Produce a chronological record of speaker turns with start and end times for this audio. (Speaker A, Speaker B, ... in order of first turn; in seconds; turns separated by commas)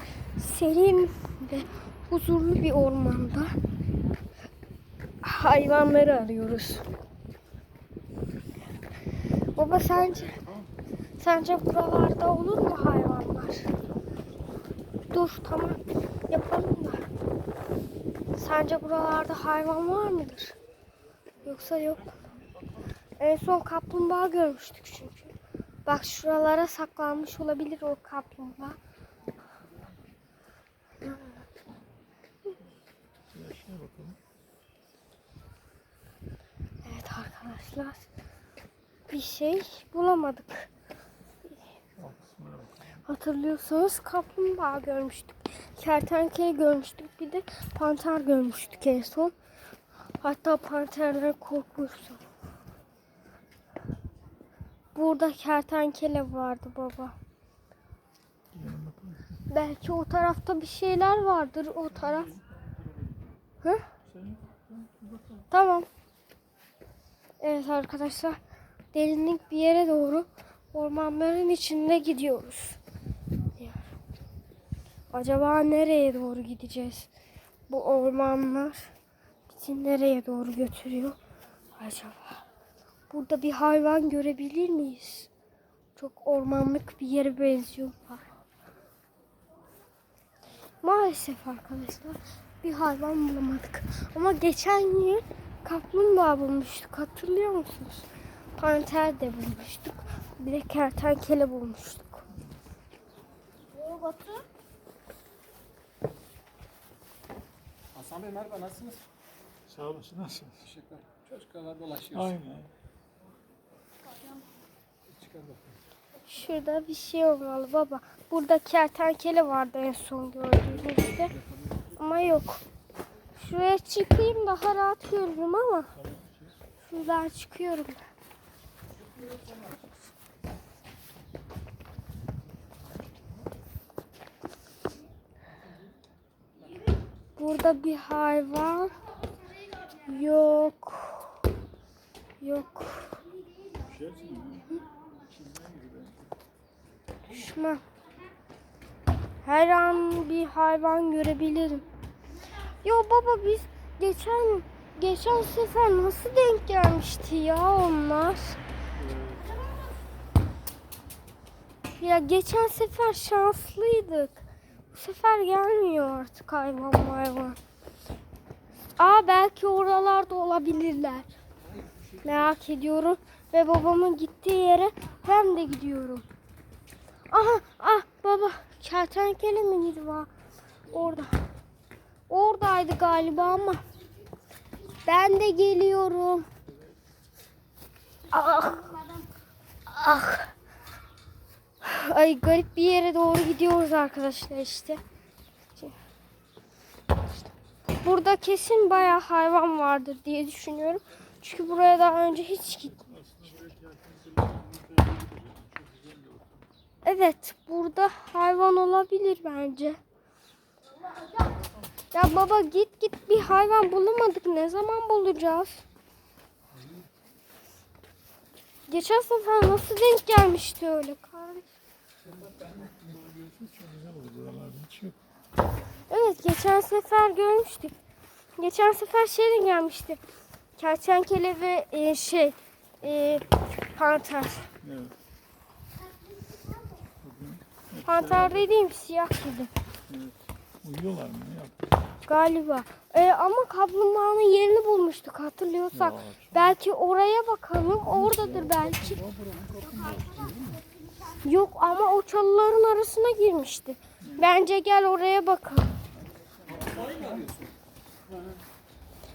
Speaker A: 0.3-3.5, Speaker A: 5.2-6.9, Speaker A: 9.5-10.4, Speaker A: 11.2-13.7, Speaker A: 15.1-17.1, Speaker A: 18.3-20.6, Speaker A: 21.4-22.2, Speaker A: 23.2-25.3, Speaker A: 25.9-28.8, Speaker A: 31.0-31.4, Speaker B: 33.3-34.2, Speaker A: 36.8-38.1, Speaker A: 39.1-40.7, Speaker B: 42.0-43.0, Speaker A: 43.0-49.3, Speaker A: 50.2-52.2, Speaker A: 54.9-57.1, Speaker B: 58.5-59.4, Speaker A: 59.5-62.3, Speaker B: 62.0-63.4, Speaker A: 63.6-63.9, Speaker B: 64.0-65.5, Speaker A: 65.5-65.9, Speaker A: 67.4-68.4, Speaker A: 68.9-72.8, Speaker A: 73.6-73.8, Speaker A: 75.1-77.1, Speaker A: 77.7-78.9, Speaker A: 79.5-81.2, Speaker A: 81.8-82.5, Speaker A: 83.1-85.3, Speaker A: 86.0-88.3, Speaker A: 90.8-102.2, Speaker B: 102.3-102.6, Speaker A: 103.8-104.4, Speaker C: 107.9-109.0, Speaker B: 109.7-110.7, Speaker C: 110.6-112.4, Speaker B: 112.1-112.7, Speaker C: 115.1-115.8, Speaker A: 116.3-121.3, Speaker C: 121.0-121.8, Speaker A: 122.0-122.6, Speaker A: 123.4-125.9, Speaker B: 126.0-126.5, Speaker A: 126.8-128.0, Speaker A: 137.3-139.0, Speaker A: 139.9-141.4, Speaker A: 142.4-143.2, Speaker B: 143.8-146.2, Speaker A: 147.2-147.8, Speaker A: 149.4-151.8, Speaker A: 152.8-158.6, Speaker B: 159.0-159.6, Speaker A: 162.0-167.6, Speaker A: 169.0-171.3, Speaker C: 171.6-172.5, Speaker A: 172.2-176.2, Speaker A: 177.3-180.3, Speaker A: 180.9-181.4, Speaker A: 182.3-183.8, Speaker A: 185.0-186.5, Speaker A: 188.3-189.2, Speaker A: 189.9-190.5, Speaker A: 191.8-195.0, Speaker A: 198.0-203.0, Speaker B: 202.8-206.7, Speaker A: 207.0-210.0, Speaker A: 212.1-215.8, Speaker C: 216.8-217.1, Speaker A: 218.9-221.7, Speaker C: 222.3-223.0, Speaker B: 223.0-225.2, Speaker A: 226.1-227.9, Speaker A: 228.6-230.2, Speaker A: 230.8-234.7, Speaker B: 234.8-235.2, Speaker B: 237.2-238.7, Speaker A: 238.0-239.7, Speaker B: 240.1-242.0, Speaker A: 242.2-249.2, Speaker B: 245.9-246.8, Speaker B: 248.1-250.8, Speaker A: 251.3-256.0, Speaker B: 254.2-254.5, Speaker B: 256.4-257.4, Speaker C: 256.6-257.7, Speaker B: 258.3-258.6